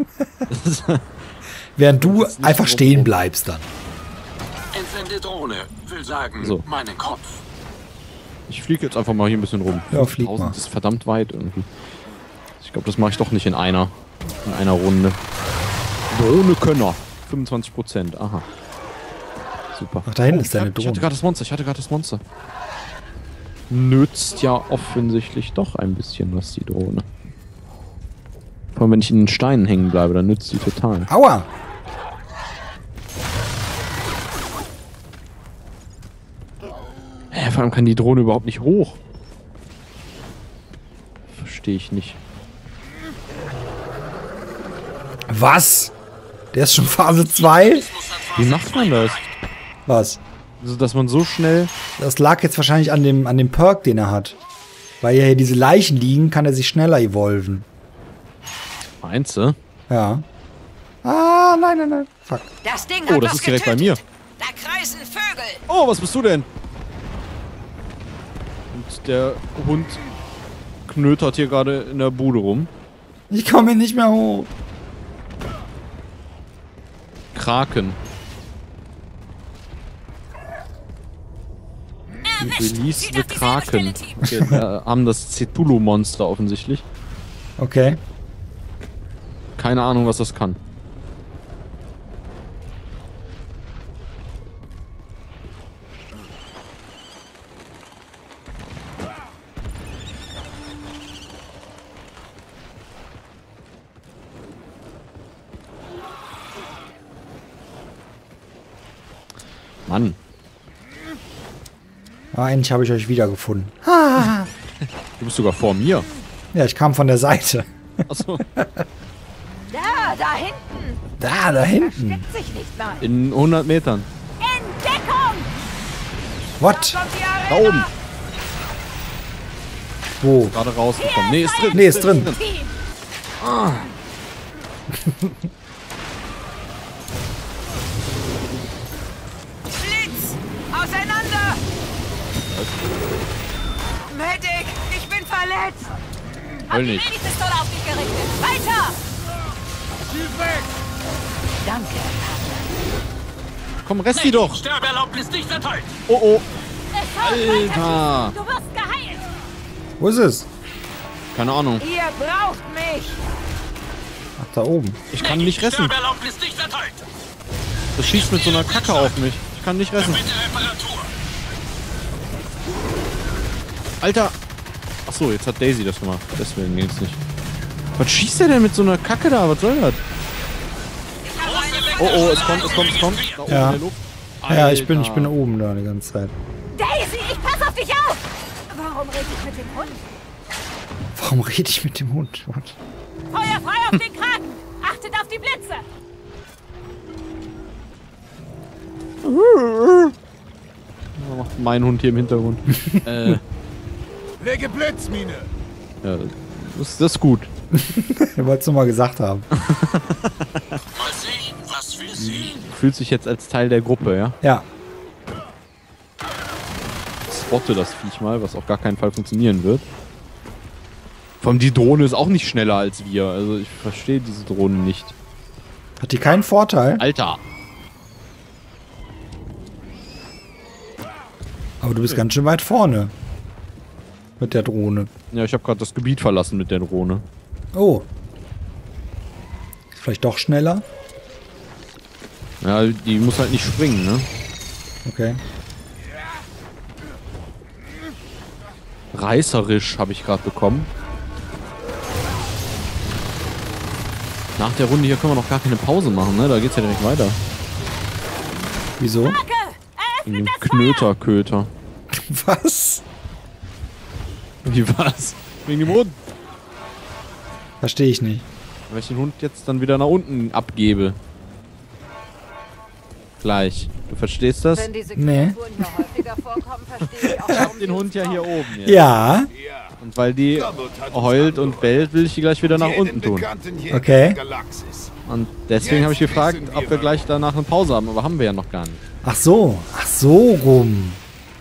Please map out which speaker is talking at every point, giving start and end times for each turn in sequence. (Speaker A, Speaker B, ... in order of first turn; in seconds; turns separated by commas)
Speaker A: 0.5-1.0, Speaker B: 1.8-3.7, Speaker A: 2.0-3.1, Speaker C: 4.7-7.3, Speaker A: 6.4-6.7, Speaker A: 8.5-11.7, Speaker B: 9.9-10.6, Speaker A: 12.6-15.2, Speaker A: 16.1-18.5, Speaker A: 19.7-22.2, Speaker B: 20.1-21.1, Speaker A: 23.7-27.1, Speaker A: 28.8-31.1, Speaker B: 31.1-31.5, Speaker A: 37.3-39.0, Speaker A: 41.3-42.2, Speaker B: 45.3-45.9, Speaker B: 46.5-48.0, Speaker A: 48.3-49.3, Speaker B: 49.9-50.2, Speaker A: 50.6-51.7, Speaker B: 52.0-54.4, Speaker B: 55.0-57.7, Speaker A: 59.0-59.6, Speaker B: 59.9-60.2, Speaker B: 61.0-62.5, Speaker D: 62.7-65.6, Speaker A: 63.1-64.0, Speaker A: 65.7-66.5, Speaker A: 68.7-70.0, Speaker A: 70.9-72.7, Speaker B: 73.3-74.5, Speaker A: 77.3-78.0, Speaker D: 82.3-84.2, Speaker A: 82.4-86.8, Speaker B: 87.6-88.0, Speaker A: 89.6-90.6, Speaker A: 109.9-110.2, Speaker B: 112.3-114.5, Speaker A: 115.2-116.1, Speaker B: 116.5-118.8, Speaker A: 118.1-118.5, Speaker D: 119.7-121.0, Speaker B: 121.2-122.3, Speaker D: 121.7-123.0, Speaker A: 123.0-124.1, Speaker D: 124.4-125.5, Speaker B: 126.6-127.0, Speaker D: 126.7-127.9, Speaker A: 127.5-127.9, Speaker B: 130.2-130.6, Speaker A: 130.4-132.4, Speaker D: 131.0-132.7, Speaker B: 131.7-132.4, Speaker A: 133.4-133.9, Speaker B: 134.9-135.4, Speaker D: 139.7-141.6, Speaker A: 142.4-142.8, Speaker D: 144.1-146.0, Speaker D: 146.7-149.0, Speaker A: 146.7-147.1, Speaker E: 150.2-150.6, Speaker D: 151.6-152.6, Speaker A: 153.8-154.7, Speaker C: 154.8-155.9, Speaker A: 156.1-156.4, Speaker D: 156.9-159.3, Speaker A: 157.2-158.4, Speaker B: 160.0-160.5, Speaker A: 161.3-161.8, Speaker D: 161.8-163.2, Speaker B: 164.4-165.0, Speaker A: 165.1-166.1, Speaker C: 166.1-166.9, Speaker A: 167.9-170.4, Speaker A: 174.0-174.3, Speaker A: 175.1-177.2, Speaker A: 178.0-180.0, Speaker D: 181.2-182.8, Speaker A: 182.0-185.3, Speaker B: 183.5-183.8, Speaker B: 184.5-186.3, Speaker D: 186.7-190.0, Speaker B: 191.2-192.8, Speaker D: 193.3-195.8, Speaker A: 199.2-200.1, Speaker A: 201.2-203.4, Speaker E: 204.4-205.5, Speaker A: 206.0-207.5, Speaker B: 207.7-209.5, Speaker A: 209.6-210.6, Speaker C: 211.2-211.9, Speaker A: 212.0-214.4, Speaker B: 214.4-214.7, Speaker A: 217.3-219.8, Speaker A: 221.4-225.2, Speaker B: 226.0-227.0, Speaker A: 227.0-227.4, Speaker B: 231.8-233.1, Speaker B: 234.4-235.1, Speaker A: 235.3-237.2, Speaker B: 237.7-238.1, Speaker B: 239.9-240.8, Speaker A: 242.6-244.3, Speaker B: 245.1-245.4, Speaker A: 249.1-250.9, Speaker A: 254.6-257.4, Speaker B: 259.0-259.4, Speaker D: 259.2-261.1, Speaker A: 260.2-261.7, Speaker B: 262.1-263.0, Speaker A: 264.6-266.2, Speaker B: 267.8-268.4, Speaker A: 268.9-271.2, Speaker A: 273.4-274.9, Speaker D: 274.7-278.4, Speaker B: 275.2-275.7, Speaker B: 277.2-277.6, Speaker A: 277.5-279.1, Speaker B: 278.8-279.5, Speaker A: 280.0-283.5, Speaker E: 283.5-285.1, Speaker B: 283.9-284.4, Speaker A: 285.2-289.0, Speaker B: 289.2-291.2